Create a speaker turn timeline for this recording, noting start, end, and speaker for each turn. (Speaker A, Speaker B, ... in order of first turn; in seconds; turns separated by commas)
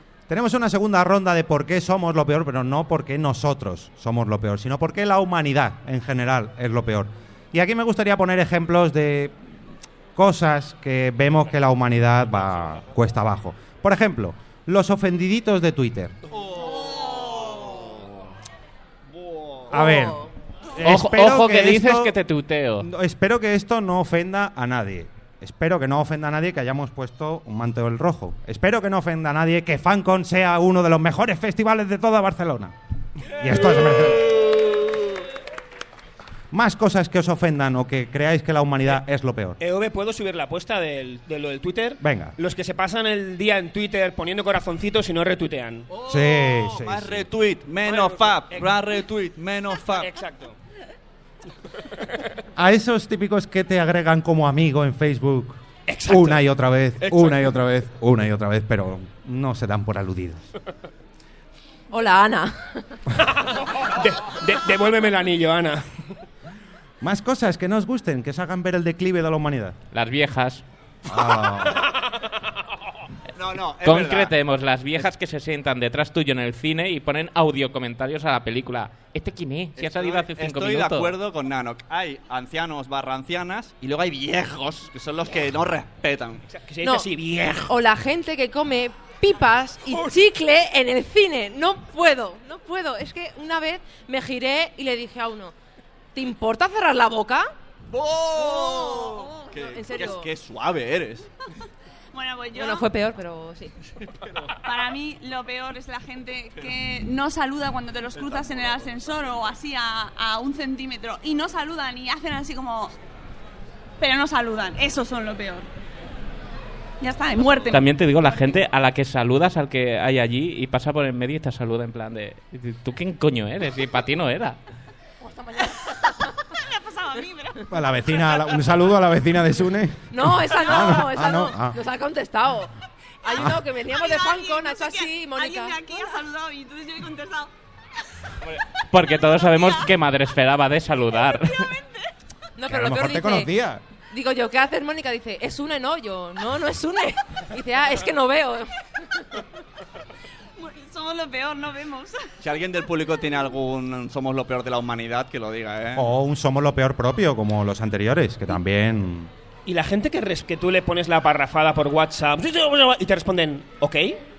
Speaker A: 0.3-9.5, Speaker A: 10.1-16.1, Speaker B: 16.3-18.3, Speaker B: 19.1-19.7, Speaker A: 19.7-22.1, Speaker C: 19.7-20.3, Speaker D: 20.8-22.9, Speaker A: 22.8-34.3, Speaker A: 36.5-39.6, Speaker E: 39.6-45.9, Speaker A: 42.0-42.4, Speaker B: 45.9-50.1, Speaker A: 46.0-47.2, Speaker E: 47.8-48.8, Speaker E: 50.0-50.5, Speaker A: 52.5-60.4, Speaker E: 55.9-57.6, Speaker C: 61.9-63.0, Speaker E: 63.2-65.9, Speaker A: 67.0-69.8, Speaker D: 69.9-70.6, Speaker A: 71.0-71.9, Speaker B: 73.3-74.3, Speaker D: 73.8-81.1, Speaker B: 79.8-86.4, Speaker E: 86.5-87.7, Speaker C: 86.8-87.1, Speaker C: 87.6-95.5, Speaker E: 89.9-90.2, Speaker C: 96.1-97.5, Speaker B: 97.9-101.3, Speaker F: 98.3-99.9, Speaker C: 99.6-100.3, Speaker F: 102.1-102.9, Speaker C: 102.5-103.7, Speaker B: 104.0-104.5, Speaker F: 104.6-113.0, Speaker F: 114.0-115.7, Speaker F: 117.0-117.8, Speaker D: 117.7-124.6, Speaker C: 125.2-126.0, Speaker F: 126.5-128.4, Speaker A: 127.7-131.8, Speaker C: 130.1-135.8, Speaker F: 133.2-137.5, Speaker D: 138.9-141.7, Speaker F: 139.3-139.8, Speaker C: 142.6-143.5, Speaker A: 142.7-143.8, Speaker C: 144.1-149.4, Speaker F: 150.6-152.3, Speaker B: 152.4-156.1, Speaker A: 155.9-159.3, Speaker E: 159.7-164.2